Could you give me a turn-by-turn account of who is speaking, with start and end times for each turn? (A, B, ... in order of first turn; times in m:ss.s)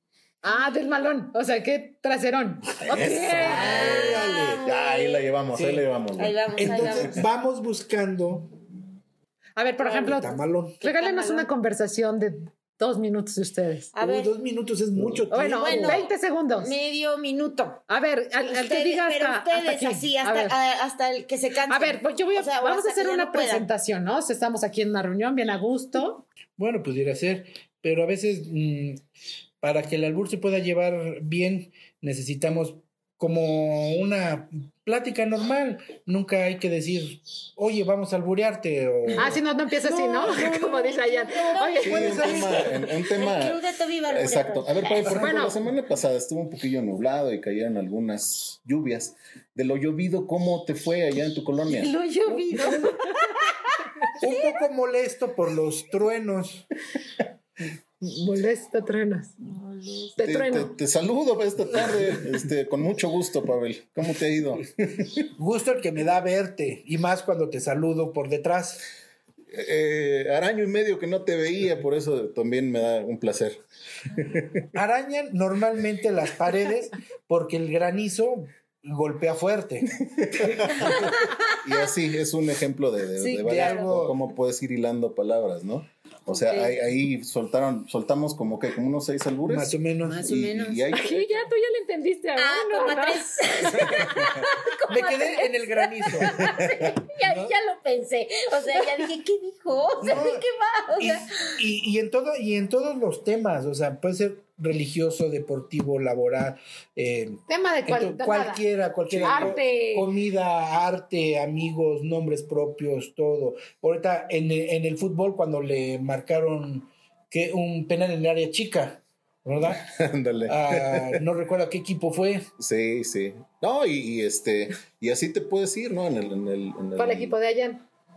0:00.4-0:03.8 A
0:02.9-0:07.1 B
0:03.0-0:04.6 C
0:03.5-0:05.3 D
0:05.5-0:05.8 C
0:06.2-0:07.2 D
0:06.5-0:08.5 C
0:09.6-0:13.9 A
0:09.8-0:10.1 D
0:10.0-0:10.8 C
0:10.8-0:11.5 D
0:13.9-0:14.3 D
0:14.0-0:16.1 C
0:15.3-0:16.7 A
0:15.5-0:17.8 D
0:17.9-0:20.6 A
0:18.5-0:23.7 D
0:21.7-0:26.2 A
0:26.6-0:29.0 C
0:29.6-0:40.6 C
0:39.2-0:42.4 A
0:40.3-0:45.3 D
0:41.8-0:42.9 C
0:41.8-0:51.9 B
0:45.0-0:45.6 A
0:51.7-0:53.3 D
0:52.2-0:53.3 A
0:54.2-0:56.7 C
0:54.2-0:54.6 D
0:58.0-0:59.3 A
0:59.5-1:00.2 D
1:00.2-1:00.8 A
1:00.2-1:05.2 B
1:05.4-1:08.9 C
1:09.5-1:13.6 B
1:14.2-1:14.4 B
1:14.7-1:19.9 C
1:20.3-1:31.3 B
1:23.2-1:24.2 C
1:23.2-1:23.9 D
1:26.3-1:26.7 D
1:29.5-1:30.2 C
1:30.0-1:30.9 D
1:30.9-1:33.2 A
1:32.4-1:41.6 D
1:34.9-1:36.4 C
1:37.2-1:37.5 C
1:40.0-1:59.8 C
1:47.5-1:48.6 A
1:49.2-1:50.1 A
1:59.6-2:01.2 B
2:00.5-2:02.5 C
2:02.6-2:07.4 B
2:07.0-2:07.8 A